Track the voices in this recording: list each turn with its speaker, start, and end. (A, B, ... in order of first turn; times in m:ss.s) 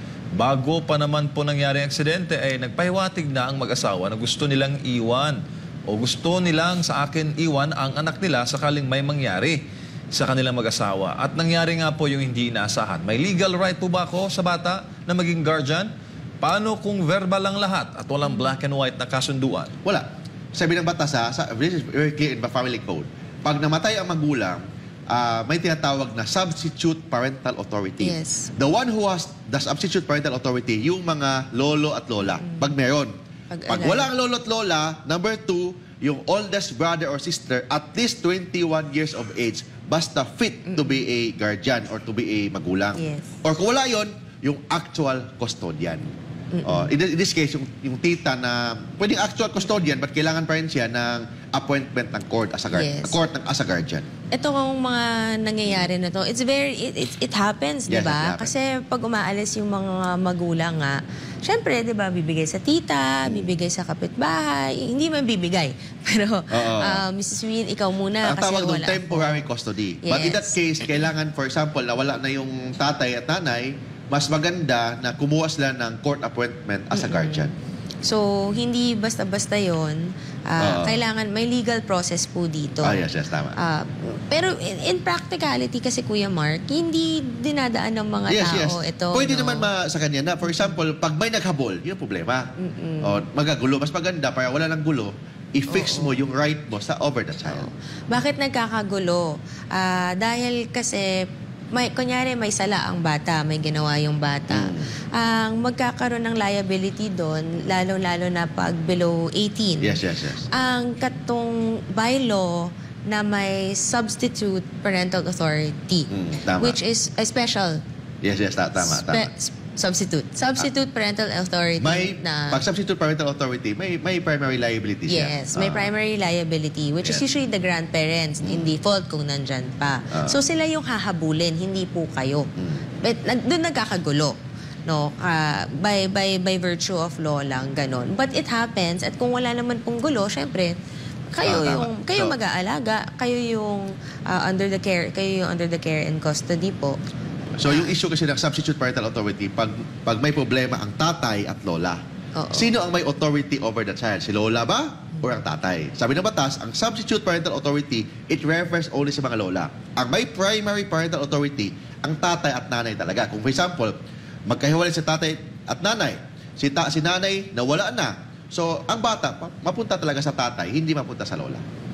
0:00.4-0:09.6 A
0:10.1-0:15.9 A
0:16.4-0:19.7 A
0:19.8-0:33.1 B
0:28.0-0:28.5 C
0:32.3-0:32.7 C
0:33.5-0:34.1 C
0:33.7-0:46.1 B
0:43.0-0:43.4 C
0:46.5-0:46.9 C
0:46.6-0:54.1 B
0:52.7-0:53.2 C
0:54.3-1:09.4 C
0:57.9-0:58.5 B
1:03.2-1:03.5 B
1:06.5-1:07.0 B
1:08.2-1:17.5 B
1:10.0-1:10.6 C
1:16.9-1:17.4 C
1:18.0-1:23.0 C
1:20.6-1:21.0 B
1:22.8-1:23.6 B
1:23.6-1:29.7 C
1:28.3-1:32.5 B
1:30.5-1:30.7 C
1:32.6-1:33.2 C
1:33.0-1:37.7 B
1:35.7-1:36.2 C
1:37.5-1:50.0 C
1:44.5-1:44.9 B
1:49.8-1:50.5 B
1:50.5-1:56.1 C
1:56.1-1:56.8 B
1:56.6-1:57.8 C
1:58.2-1:59.3 B
1:58.8-2:02.6 C
2:01.8-2:05.9 B
2:05.1-2:12.5 C
2:10.1-2:10.4 B
2:12.6-2:12.8 B
2:13.0-2:20.8 C
2:21.3-2:27.0 C
2:21.4-2:22.3 B
2:27.6-2:32.0 B
2:27.6-2:28.0 C
2:32.4-2:32.7 C
2:32.5-2:44.0 B
2:44.5-2:51.6 B